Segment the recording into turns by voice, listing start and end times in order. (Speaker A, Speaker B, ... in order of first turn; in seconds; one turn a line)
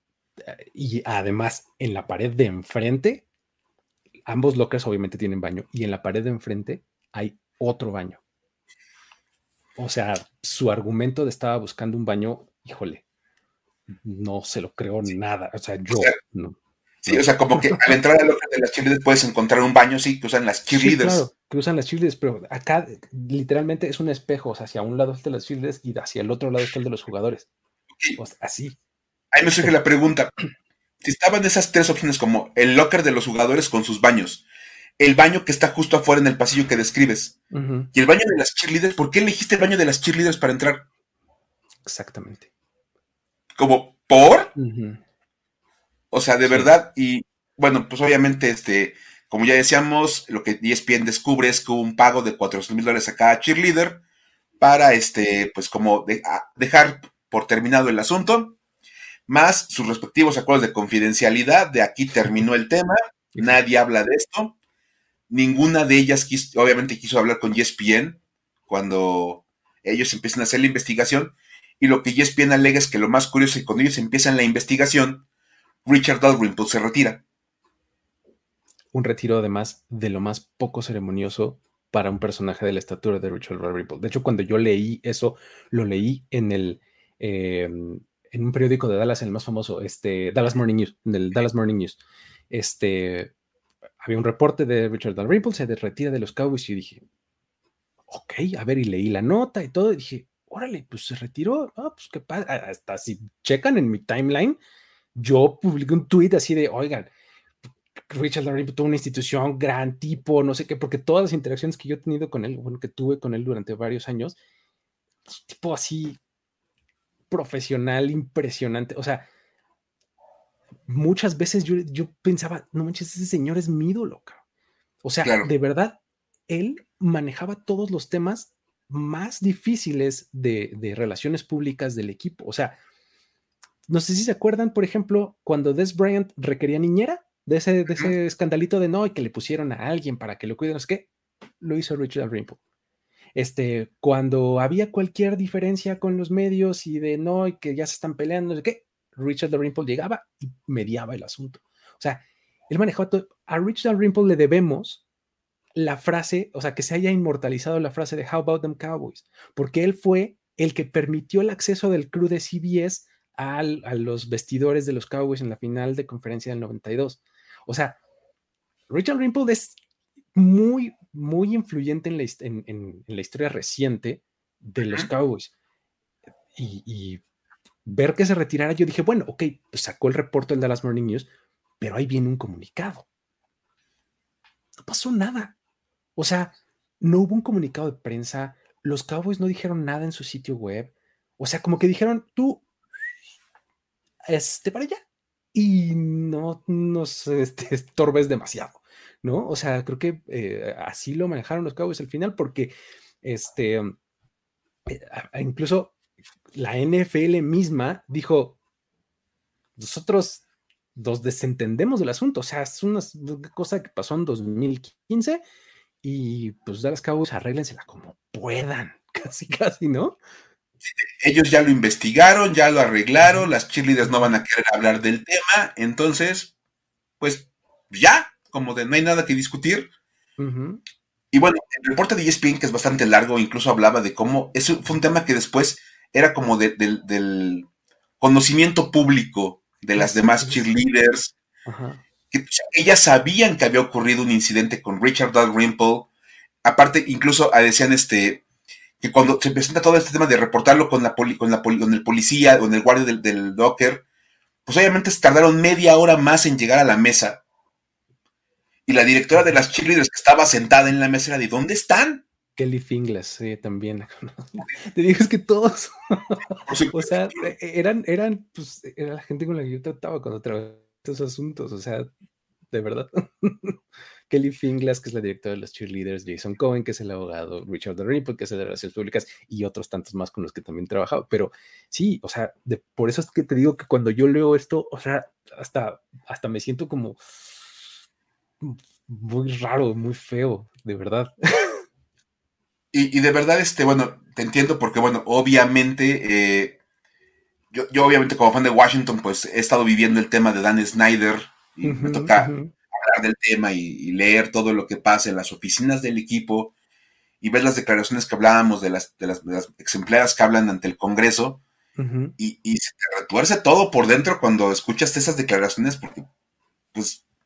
Speaker A: 0.4-3.2
Speaker A: 4.3-8.2
Speaker A: 9.8-13.0
Speaker A: 13.9-16.6
Speaker B: 15.9-16.2
Speaker B: 17.0-21.3
Speaker A: 17.1-17.8
Speaker A: 20.7-27.5
Speaker A: 28.2-28.8
Speaker B: 29.3-30.3
Speaker B: 31.0-34.4
Speaker B: 35.0-37.4
Speaker A: 37.5-37.9
Speaker B: 37.9-40.9
Speaker A: 41.8-42.5
Speaker B: 43.5-44.5
Speaker A: 44.5-45.0
Speaker B: 46.1-54.0
Speaker A: 46.5-46.7
Speaker B: 54.6-58.5
Speaker B: 59.3-64.5
Speaker B: 65.3-75.2
Speaker B: 75.8-77.2
Speaker A: 78.9-92.0
Speaker A: 92.5-93.3
Speaker A: 94.0-97.0
Speaker A: 98.1-104.6
Speaker A: 105.1-107.1
Speaker A: 108.1-114.4
Speaker A: 115.3-116.2
Speaker A: 117.3-119.3
Speaker A: 120.9-124.4
Speaker A: 125.0-126.0
Speaker B: 125.2-125.5
Speaker A: 126.5-132.8
Speaker A: 133.9-141.1
Speaker A: 141.6-142.6
Speaker A: 143.4-155.0
Speaker A: 155.8-168.0
Speaker A: 168.9-169.8
Speaker A: 170.3-175.5
Speaker A: 176.6-177.2
Speaker A: 177.8-181.3
Speaker A: 181.8-183.1
Speaker A: 184.8-185.6
Speaker A: 186.2-192.6
Speaker A: 194.3-195.0
Speaker A: 195.5-203.9
Speaker A: 204.9-205.9
Speaker A: 206.6-208.6
Speaker A: 209.8-210.4
Speaker A: 210.9-215.4
Speaker A: 216.0-220.2
Speaker B: 220.8-226.5
Speaker A: 223.2-223.5
Speaker B: 227.2-229.9
Speaker A: 230.4-230.8
Speaker B: 231.3-237.7
Speaker B: 238.2-241.3
Speaker A: 240.0-240.6
Speaker A: 241.7-242.0
Speaker B: 242.3-246.1
Speaker B: 246.6-248.4
Speaker B: 249.0-254.0
Speaker B: 254.7-257.4
Speaker B: 258.9-262.2
Speaker A: 262.6-272.1
Speaker B: 266.6-267.5
Speaker A: 272.7-273.8
Speaker A: 274.3-287.2
Speaker A: 288.6-291.8
Speaker B: 292.9-296.8
Speaker B: 297.7-306.7
Speaker A: 301.8-302.7
Speaker B: 307.4-311.6
Speaker A: 312.0-312.3
Speaker B: 312.4-316.3
Speaker B: 316.9-317.2